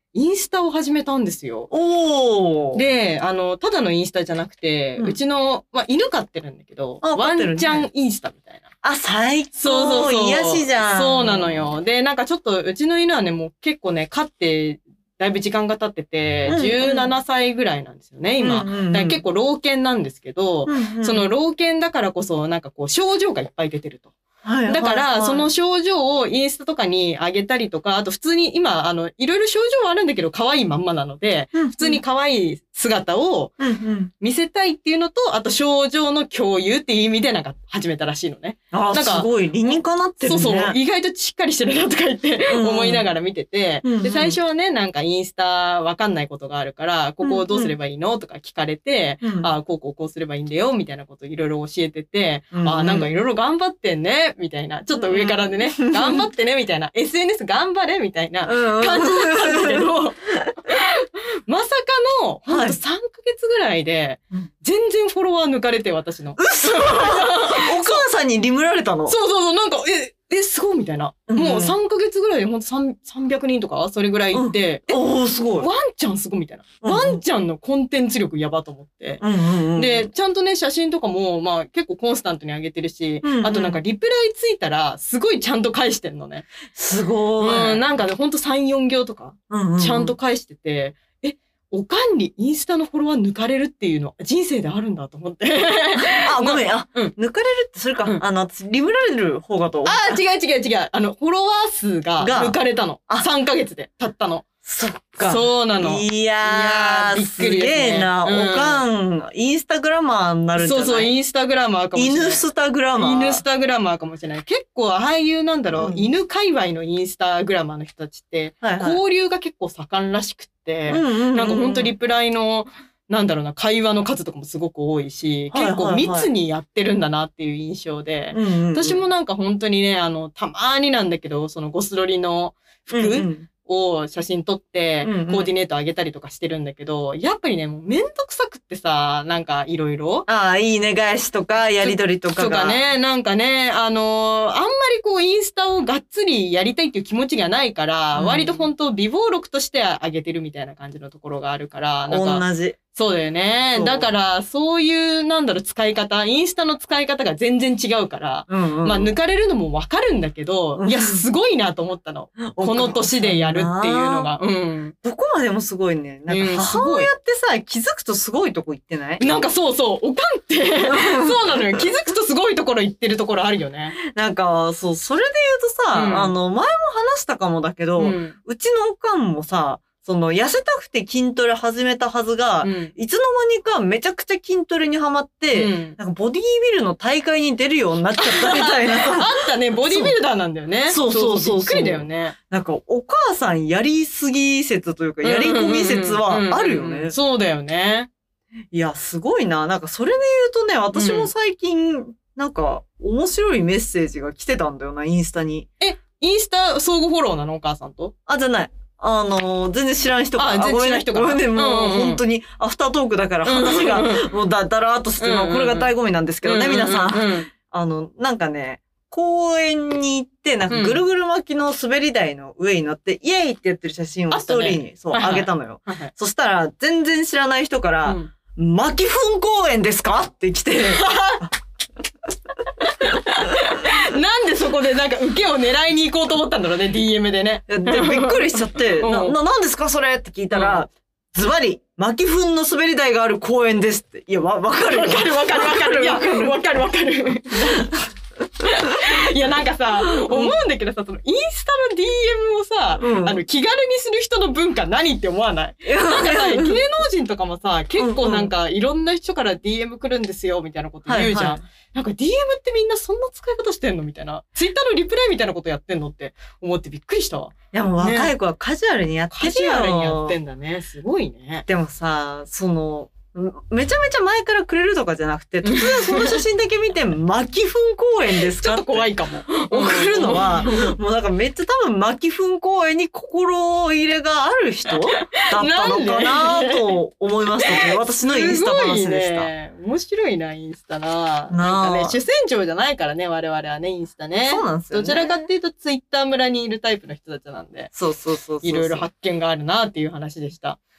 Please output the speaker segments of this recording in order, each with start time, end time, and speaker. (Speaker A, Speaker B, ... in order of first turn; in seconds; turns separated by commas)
Speaker A: 0.1-1.7, Speaker B: 1.7-2.8, Speaker A: 2.7-8.7, Speaker B: 7.0-7.9, Speaker B: 8.8-11.7, Speaker A: 9.6-24.1, Speaker B: 16.5-17.1, Speaker B: 18.4-19.2, Speaker B: 20.7-21.3, Speaker B: 24.4-25.5, Speaker A: 24.7-33.5, Speaker B: 31.6-32.0, Speaker B: 33.6-34.1, Speaker A: 34.2-68.0, Speaker B: 38.7-40.8, Speaker B: 42.5-43.1, Speaker B: 43.8-44.4, Speaker B: 47.2-47.7, Speaker B: 49.2-49.5, Speaker B: 52.5-53.1, Speaker B: 54.9-56.3, Speaker B: 58.5-59.9, Speaker B: 62.5-62.8, Speaker B: 66.4-69.2, Speaker A: 69.1-75.0, Speaker B: 71.3-71.8, Speaker B: 74.3-75.7, Speaker A: 75.6-79.2, Speaker B: 76.8-77.2, Speaker B: 79.2-80.1, Speaker A: 79.8-86.5, Speaker B: 83.2-83.8, Speaker B: 86.7-87.8, Speaker A: 87.4-97.1, Speaker B: 89.5-90.1, Speaker B: 96.2-100.2, Speaker A: 99.8-104.5, Speaker B: 102.2-103.3, Speaker B: 104.6-111.1, Speaker A: 105.2-108.8, Speaker A: 110.6-140.2, Speaker B: 112.0-113.4, Speaker B: 115.7-116.1, Speaker B: 118.6-119.0, Speaker B: 120.9-121.9, Speaker B: 125.5-126.3, Speaker B: 128.3-129.0, Speaker B: 132.9-133.5, Speaker B: 135.0-135.5, Speaker B: 140.3-142.8, Speaker A: 141.8-164.9, Speaker B: 148.1-148.7, Speaker B: 152.1-152.8, Speaker B: 153.7-154.1, Speaker B: 158.5-159.1, Speaker B: 160.8-161.2, Speaker B: 162.5-164.3, Speaker B: 165.0-169.3, Speaker A: 166.3-167.1, Speaker A: 169.2-173.9, Speaker B: 170.8-171.8, Speaker B: 174.0-189.3, Speaker A: 175.9-176.3, Speaker A: 178.0-178.3, Speaker A: 182.6-182.9, Speaker A: 185.5-186.0, Speaker A: 188.2-192.3, Speaker B: 189.9-190.1, Speaker B: 190.9-197.2, Speaker A: 195.2-198.1, Speaker B: 198.7-205.7, Speaker A: 200.9-201.3, Speaker A: 205.8-208.1, Speaker B: 208.3-231.5, Speaker A: 210.3-212.2, Speaker A: 213.4-214.3, Speaker A: 215.2-215.9, Speaker A: 216.4-217.5, Speaker A: 220.7-221.0, Speaker A: 224.3-226.1, Speaker A: 228.0-228.3, Speaker A: 230.9-231.4, Speaker A: 232.8-239.4, Speaker B: 237.7-246.5, Speaker A: 240.5-240.8, Speaker A: 244.9-247.9, Speaker A: 248.6-268.3, Speaker B: 250.2-250.5, Speaker B: 253.0-253.4, Speaker B: 255.8-256.8, Speaker B: 258.0-258.5, Speaker B: 261.1-261.6, Speaker B: 267.7-270.4, Speaker A: 269.3-271.7, Speaker B: 271.7-289.5, Speaker A: 275.6-276.4, Speaker A: 278.6-280.9, Speaker A: 285.3-286.9, Speaker A: 287.7-297.9, Speaker B: 291.5-292.2, Speaker B: 294.5-295.5, Speaker B: 297.9-299.1, Speaker A: 298.6-300.8